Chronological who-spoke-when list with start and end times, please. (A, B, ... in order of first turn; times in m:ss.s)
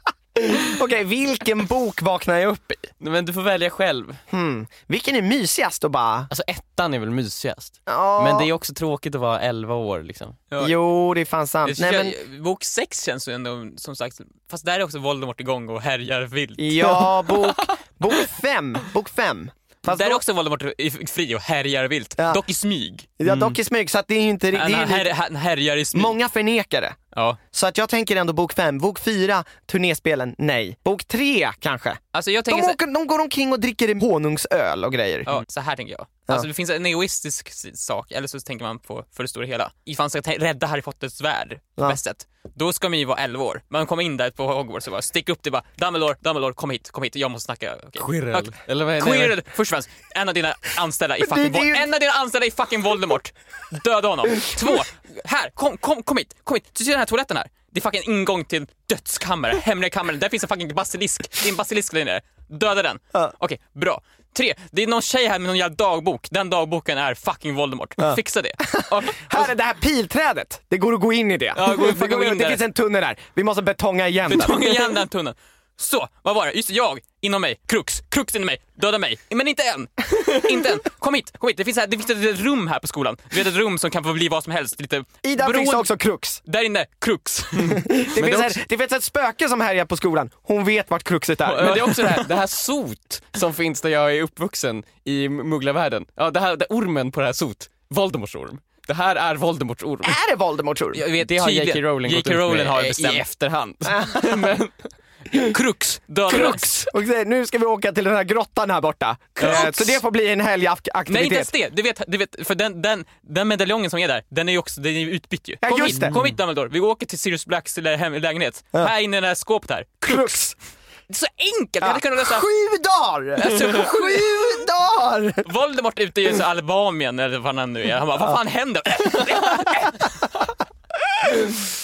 0:00.4-0:02.9 A
0:03.0-0:04.2 B
0:04.3-0:06.3 A
0:06.3-0:10.4 B
0:07.9-0:08.5 A
0:10.6-0:12.1 A
0:11.6-0:17.1 C
0:16.6-0:20.2 A
0:19.8-0:23.1 C
0:23.2-0:25.1 A
0:23.2-0:23.5 B
0:24.5-0:26.2 C
0:25.9-0:27.0 A
0:27.1-0:27.4 C
0:27.5-0:35.3 A
0:32.1-0:32.8 C
0:35.2-1:09.5 C
0:48.0-0:49.4 B
0:51.2-0:51.8 A
1:08.0-1:15.0 A
1:11.5-1:12.6 C
1:14.2-1:25.9 C
1:25.2-1:26.4 A
1:26.4-1:28.3 C
1:27.7-1:31.9 A
1:28.2-1:28.5 B
1:31.4-1:40.2 B
1:31.6-1:32.3 C
1:40.0-1:41.0 A
1:40.9-1:43.2 C
1:41.2-1:44.8 B
1:43.9-1:44.5 A
1:45.3-1:46.9 C
1:46.3-1:51.5 A
1:49.4-1:50.0 C
1:51.1-2:00.4 C
1:55.6-1:56.1 A
1:55.9-1:56.4 B
2:00.0-2:00.5 A
2:01.1-2:02.4 C
2:01.8-2:05.4 A
2:03.4-2:04.6 C
2:05.4-2:10.3 C